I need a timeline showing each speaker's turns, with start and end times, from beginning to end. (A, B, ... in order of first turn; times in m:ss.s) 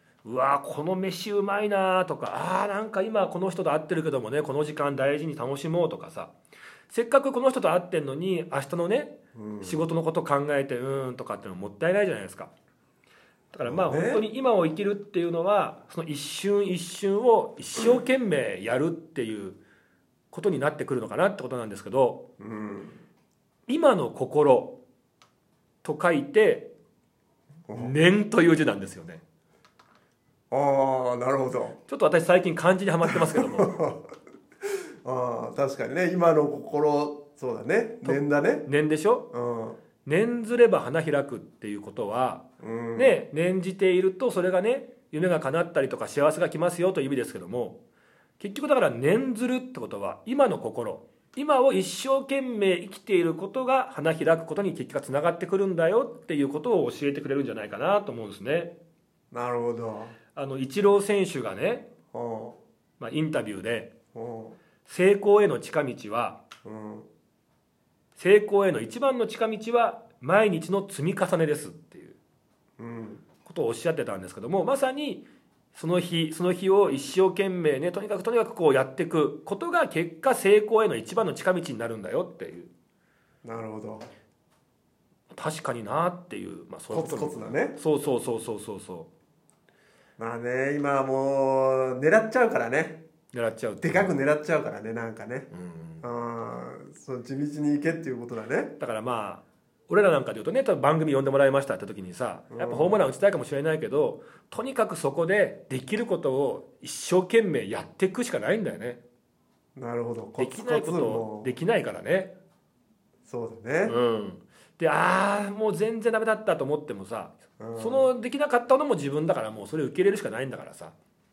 0:00.2-0:06.3 A
0:06.9-0:12.5 A
0:09.3-0:09.9 B
0:13.5-0:19.6 A
0:13.6-0:14.2 B
0:20.3-0:22.2 A
0:22.4-0:23.0 B
0:23.7-0:24.8 A
0:25.8-0:26.7 A
0:27.7-0:27.9 B
0:27.7-0:29.2 A
0:30.5-0:31.8 B
0:31.9-0:33.7 A
0:33.1-0:34.1 B
0:34.7-0:38.7 B
0:38.0-0:39.3 A
0:39.3-0:39.8 B
0:40.0-0:42.4 A
0:42.6-0:43.2 B
0:43.0-0:47.8 A
0:48.4-0:58.7 A
0:59.3-1:00.2 B
1:00.4-1:01.9 A
1:02.1-1:02.6 B
1:03.0-1:03.9 A
1:04.1-1:04.6 B
1:04.9-1:06.4 A
1:06.6-1:07.1 B
1:08.2-1:12.2 A
1:12.8-1:13.2 B
1:13.4-1:22.7 A
1:23.4-1:24.1 B
1:25.3-1:29.1 A
1:26.9-1:27.8 B
1:30.2-1:33.0 B
1:33.3-1:34.1 A
1:33.8-1:35.5 B
1:35.5-1:36.0 A
1:36.0-1:38.7 B
1:38.8-1:49.0 A
1:42.5-1:43.0 B
1:49.8-1:51.5 B
1:50.4-1:52.3 A
1:53.2-1:54.0 B
1:53.9-2:00.9 A
1:57.6-1:58.1 B